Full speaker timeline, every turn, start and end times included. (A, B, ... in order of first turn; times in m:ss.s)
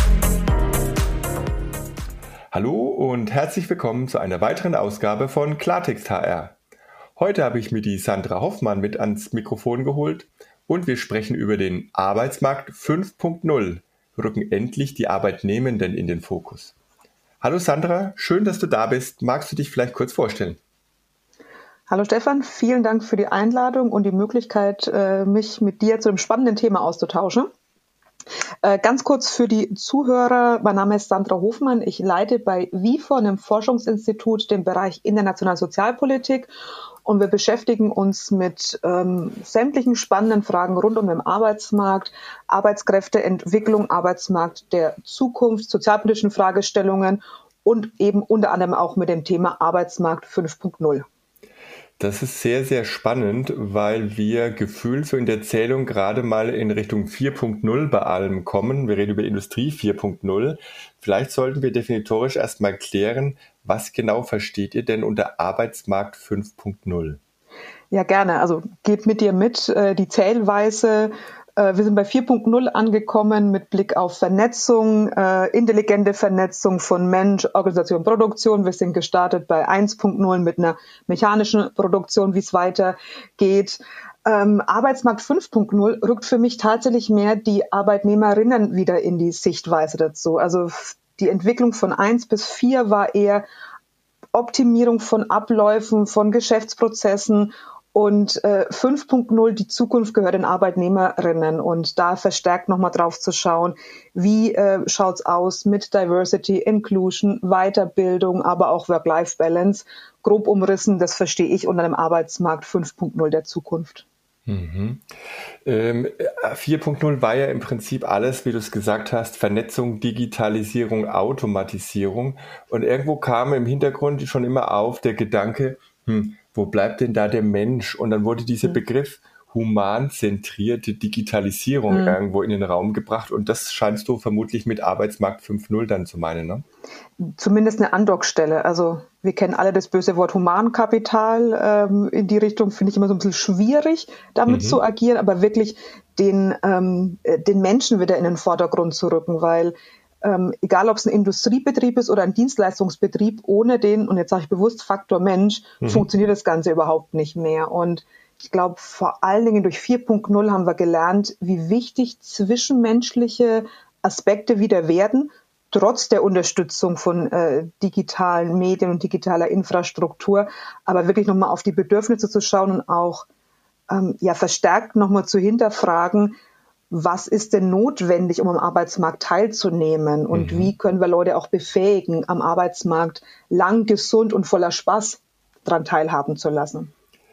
0:02.5-0:06.6 A
0:07.2-0:16.7 A
0:17.4-0:20.6 A
0:21.9-0:27.5 B
0:28.6-0:36.5 B
0:37.0-0:51.1 B
0:52.0-1:07.2 A
1:07.9-1:33.5 B
1:34.3-1:54.0 B
1:54.5-1:55.0 A
1:55.6-2:16.6 A
2:11.9-2:12.2 B
2:17.2-2:53.3 B
2:24.5-2:24.8 A
2:35.8-2:36.1 A
2:53.9-2:56.4 B
2:56.9-3:06.9 B
3:00.3-3:00.7 A